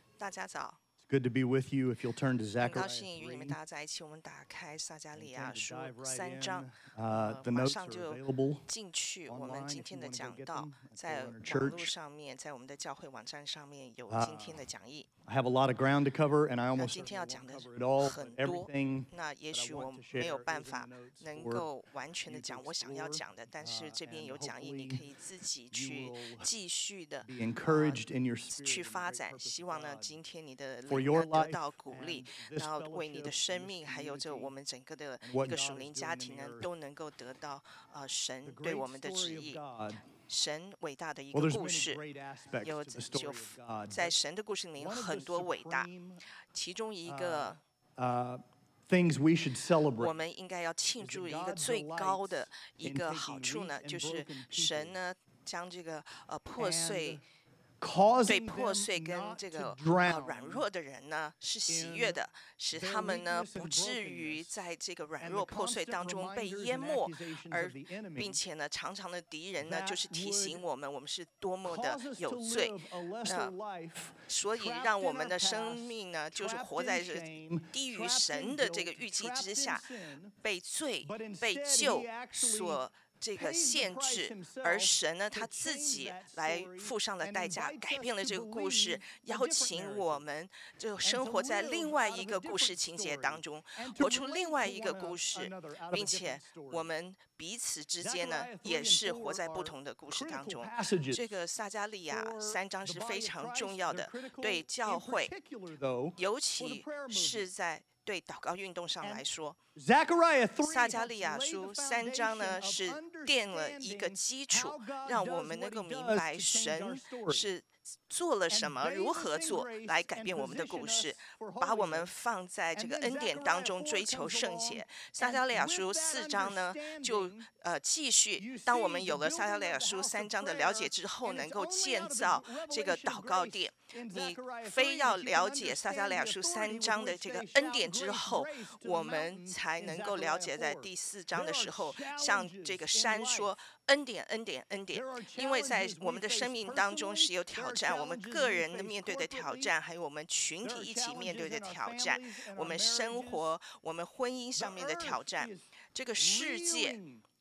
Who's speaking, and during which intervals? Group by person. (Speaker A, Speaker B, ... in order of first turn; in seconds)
Speaker A: 0.2-0.8, 2.6-6.7, 7.2-15.1, 16.7-28.0, 28.5-39.6, 40.3-42.0, 42.6-45.9, 46.5-47.6, 50.0-57.2, 58.3-73.5, 74.3-79.8, 80.4-105.3, 106.2-109.6, 110.6-157.0
Speaker B: 1.1-3.6, 5.2-8.7, 9.2-11.9, 14.1-14.6, 15.2-21.7, 22.2-25.0, 25.7-26.5, 27.2-30.1, 30.9-34.5, 35.2-36.7, 38.4-40.1, 41.3-44.2, 44.8-46.2, 47.0-50.1, 51.0-55.0, 56.6-57.2, 57.8-60.6, 61.7-62.2, 62.7-64.5, 65.2-68.4, 69.6-70.6, 71.6-80.3, 81.0-82.8, 83.3-90.2, 91.0-96.9, 98.0-101.2, 102.1-107.5, 109.0-117.5, 118.5-122.1, 122.7-127.5, 128.4-143.5, 144.9-149.7, 150.6-153.5, 154.6-157.2